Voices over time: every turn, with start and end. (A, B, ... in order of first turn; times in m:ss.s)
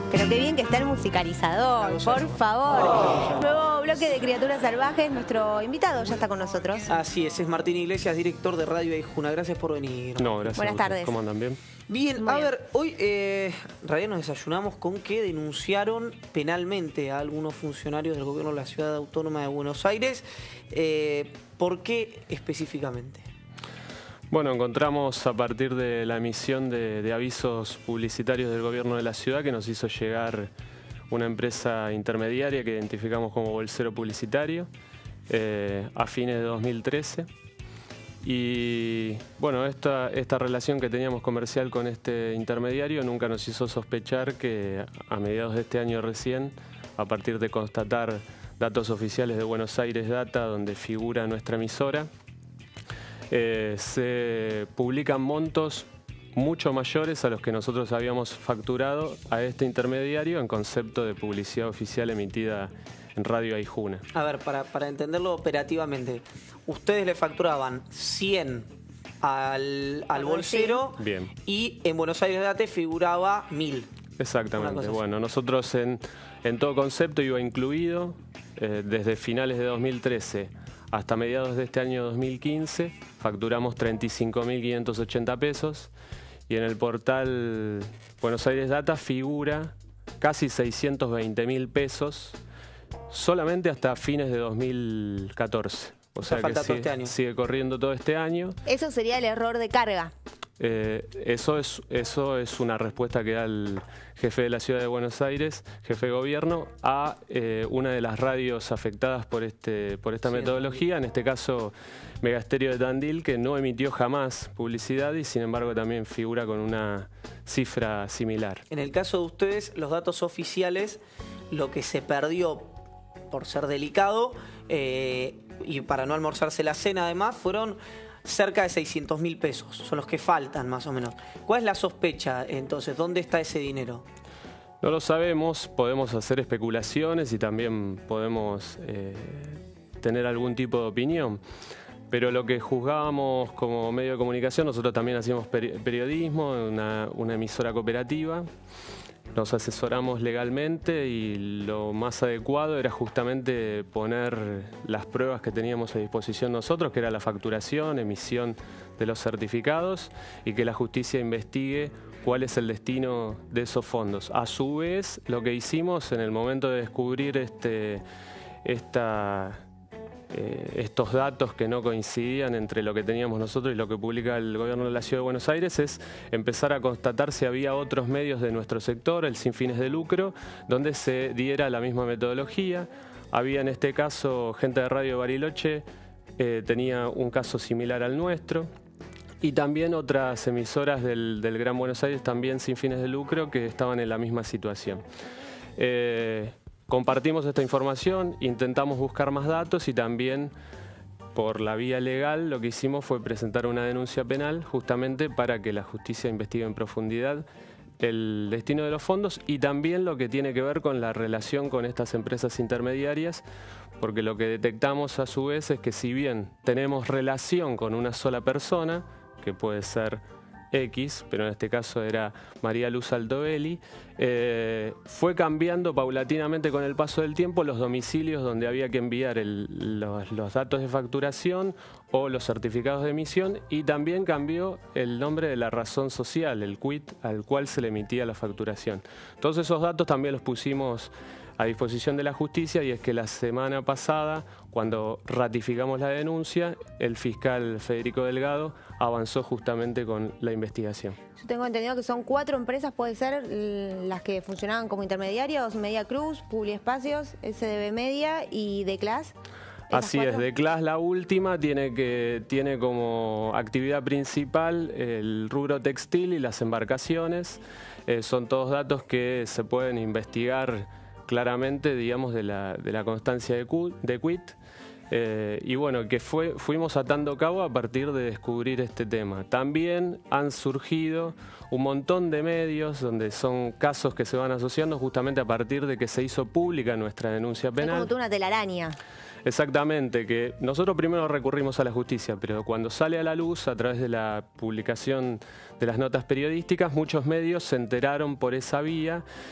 0:00.1-0:06.9 A
0:01.8-0:03.4 B
0:06.9-0:10.6 B
0:10.2-0:11.6 C
0:10.6-0:11.2 A
0:11.9-0:23.2 B
0:12.2-0:12.5 A
0:24.3-0:30.5 C
0:31.1-0:34.7 C
0:35.3-0:37.3 C
0:38.2-0:52.1 C
0:53.3-1:04.0 C
1:04.1-1:08.7 B
1:09.2-1:13.9 B
1:10.1-1:10.8 A
1:11.0-1:11.4 C
1:14.2-1:25.9 C
1:14.5-1:15.0 B
1:26.5-1:32.4 C
1:33.1-1:38.6 C
1:36.2-1:37.1 B
1:38.6-1:40.1 A
1:40.6-1:58.6 C
1:50.3-1:50.7 B
1:58.7-2:01.0 B
2:01.5-2:02.7 B
2:03.3-2:14.0 B
2:14.8-2:21.4 C
2:22.1-2:28.4 C
2:29.3-2:48.0 C
2:48.6-2:49.6 C
2:50.3-3:05.8 C
3:06.4-3:08.7 C
3:09.4-3:15.0 C
3:15.8-3:20.5 C
3:21.3-3:27.4 C
3:28.0-3:33.4 C
3:34.0-4:11.2 C
4:11.4-4:19.3 A
4:19.9-4:20.4 A
4:19.9-4:34.6 C
4:35.1-4:48.1 C
4:47.8-4:49.0 A
4:49.4-4:59.2 C